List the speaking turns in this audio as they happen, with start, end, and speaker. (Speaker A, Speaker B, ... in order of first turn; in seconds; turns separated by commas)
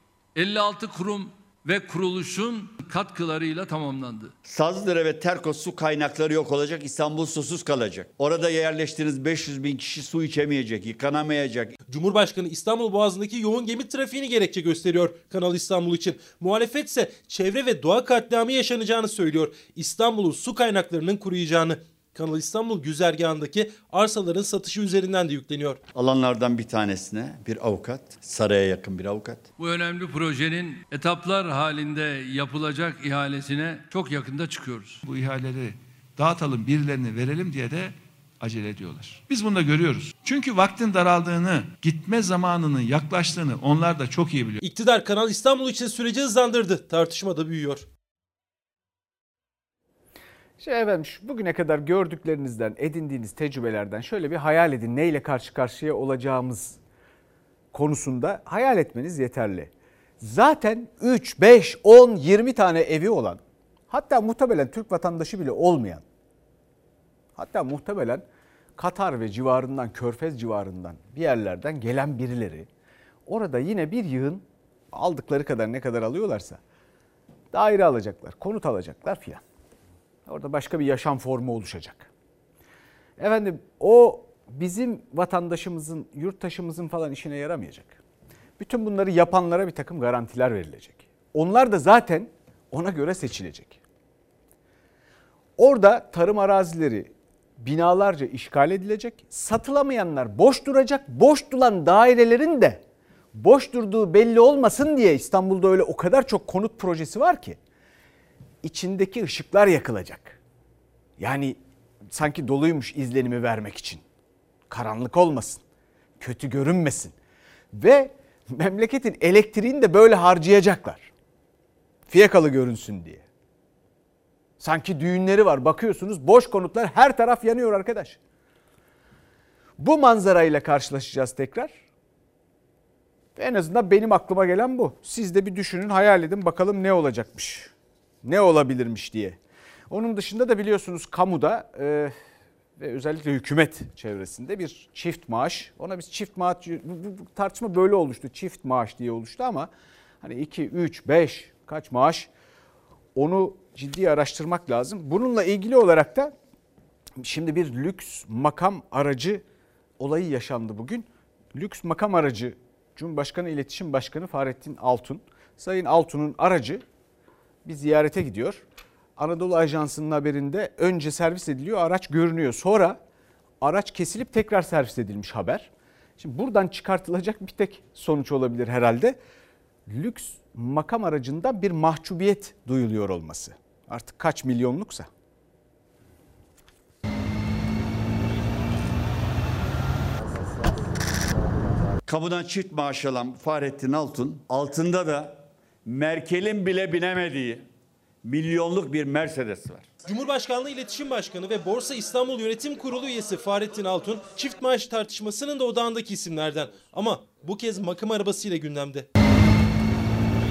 Speaker A: 0.3-4.3, Speaker B: 4.5-11.8, Speaker C: 11.9-25.8, Speaker B: 25.9-29.5, Speaker A: 29.6-35.0, Speaker D: 35.0-44.6, Speaker C: 44.6-47.9, Speaker E: 50.6-56.8, Speaker E: 57.7-66.0, Speaker E: 67.3-68.2, Speaker E: 68.8-72.7, Speaker E: 73.2-76.6, Speaker E: 77.5-79.4, Speaker E: 80.2-82.1, Speaker E: 83.2-88.0, Speaker E: 88.6-93.8, Speaker E: 95.6-107.6, Speaker E: 108.6-110.4, Speaker E: 111.2-114.0, Speaker E: 114.7-115.6, Speaker E: 116.2-117.2, Speaker E: 117.7-121.1, Speaker E: 122.1-123.2, Speaker E: 124.6-128.2, Speaker E: 129.8-131.8, Speaker E: 133.3-137.7, Speaker E: 138.2-142.1, Speaker E: 142.8-149.7, Speaker E: 150.2-152.3, Speaker E: 153.1-156.3, Speaker E: 157.2-159.4, Speaker E: 160.0-166.8, Speaker E: 167.6-168.6, Speaker E: 169.2-173.0, Speaker E: 173.6-179.2, Speaker E: 179.9-185.1, Speaker B: 192.1-197.6, Speaker B: 198.2-199.9, Speaker C: 200.0-209.1